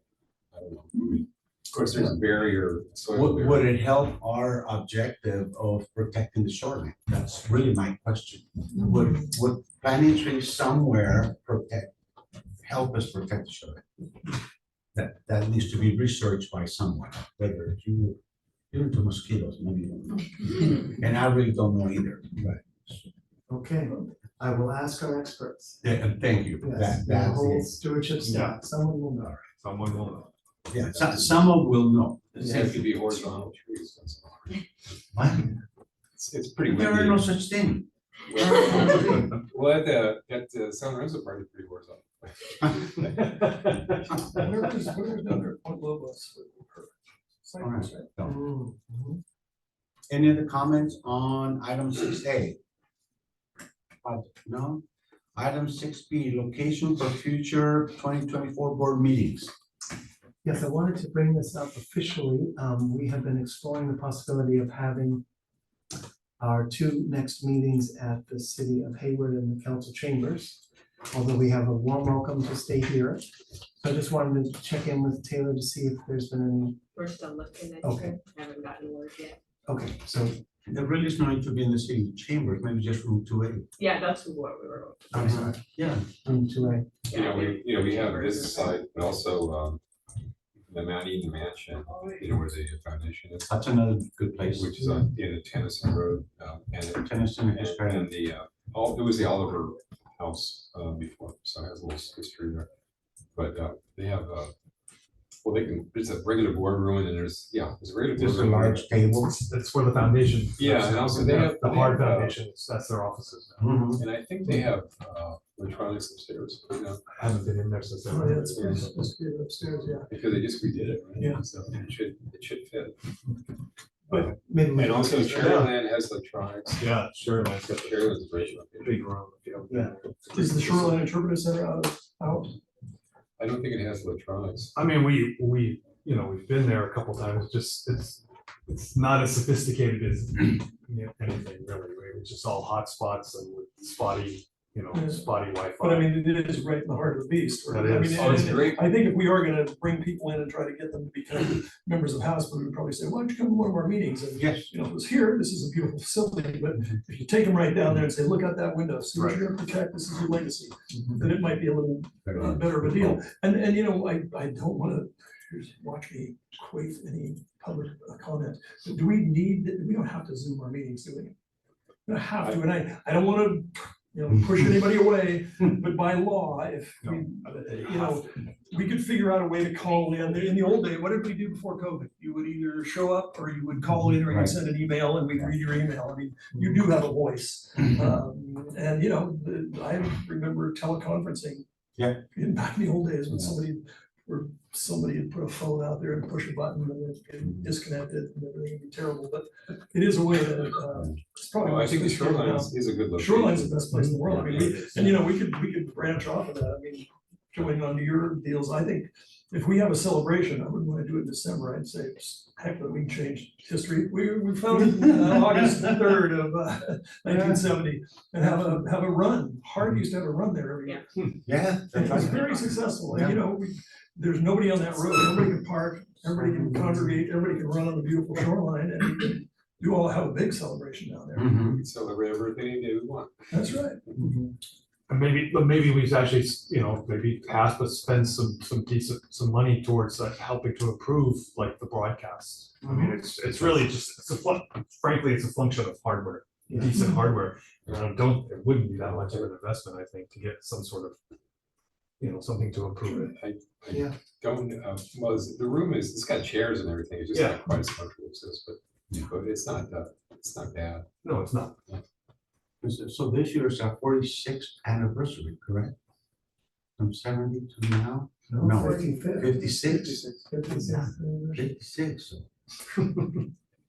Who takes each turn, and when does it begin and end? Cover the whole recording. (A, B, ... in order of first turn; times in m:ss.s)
0:00.5-0:03.7 A
0:03.1-0:11.9 B
0:12.6-0:13.8 B
0:15.0-0:18.2 B
0:18.7-0:23.0 B
0:23.5-0:25.8 C
0:25.8-0:27.7 B
0:26.6-0:29.4 C
0:28.2-0:28.6 D
0:29.5-0:31.2 D
0:30.7-0:32.6 B
0:32.4-0:34.7 A
0:32.4-0:32.8 C
0:35.1-0:35.5 B
0:36.2-0:37.3 A
0:36.6-0:39.2 B
0:38.3-0:44.5 A
0:44.3-0:48.1 E
0:47.6-0:48.4 B
0:48.2-0:49.2 C
0:50.1-0:52.6 B
0:54.0-0:54.8 B
0:55.4-0:59.5 B
1:00.4-1:05.2 C
1:06.4-1:16.8 C
1:16.9-1:19.4 F
1:17.8-1:18.1 C
1:19.7-1:20.4 C
1:20.7-1:23.7 B
1:23.8-1:25.2 F
1:25.1-1:25.6 C
1:25.1-1:26.1 B
1:26.2-1:26.9 C
1:27.1-1:28.8 F
1:27.1-1:29.8 A
1:30.7-1:33.6 A
1:33.5-1:34.8 B
1:34.5-1:42.7 A
1:37.0-1:38.1 B
1:43.4-1:44.5 A
1:45.4-1:48.9 A
1:48.2-1:49.4 B
1:49.4-1:53.8 D
1:50.6-1:52.4 A
1:53.6-1:54.0 B
1:54.0-1:57.0 A
1:57.1-1:59.0 D
1:58.1-2:00.1 E
1:58.5-1:58.8 A
2:00.1-2:03.0 A
2:01.2-2:01.4 E
2:04.1-2:05.7 C
2:04.1-2:06.9 A
2:05.3-2:05.7 D
2:06.8-2:08.2 D
2:07.6-2:09.0 A
2:08.8-2:10.9 D
2:09.7-2:09.9 C
2:10.4-2:12.6 E
2:13.4-2:14.7 A
2:14.8-2:26.2 D
2:24.9-2:51.3 E
2:27.7-2:28.6 D
2:28.2-2:28.9 A
2:34.4-2:34.7 B
2:52.1-3:11.6 E
2:57.2-2:58.1 D
3:04.3-3:04.6 B
3:12.0-3:12.2 B
3:12.3-3:41.0 E
3:21.6-3:24.8 A
3:24.2-3:25.2 D
3:41.4-3:42.5 B
3:42.0-3:51.5 E
3:43.1-3:43.4 B
3:46.3-3:47.2 C
3:51.4-3:51.8 B
3:51.7-3:53.4 A
3:53.5-3:54.0 E
3:54.2-3:54.5 C
3:55.1-4:11.2 D
4:06.7-4:06.9 C
4:12.2-4:13.3 D
4:13.0-4:13.3 E
4:13.4-4:21.1 A
4:13.9-4:14.2 C
4:17.3-4:17.7 D
4:21.2-4:21.8 D
4:22.8-4:26.0 B
4:27.0-4:30.2 B
4:28.5-4:31.6 C
4:31.5-4:32.5 B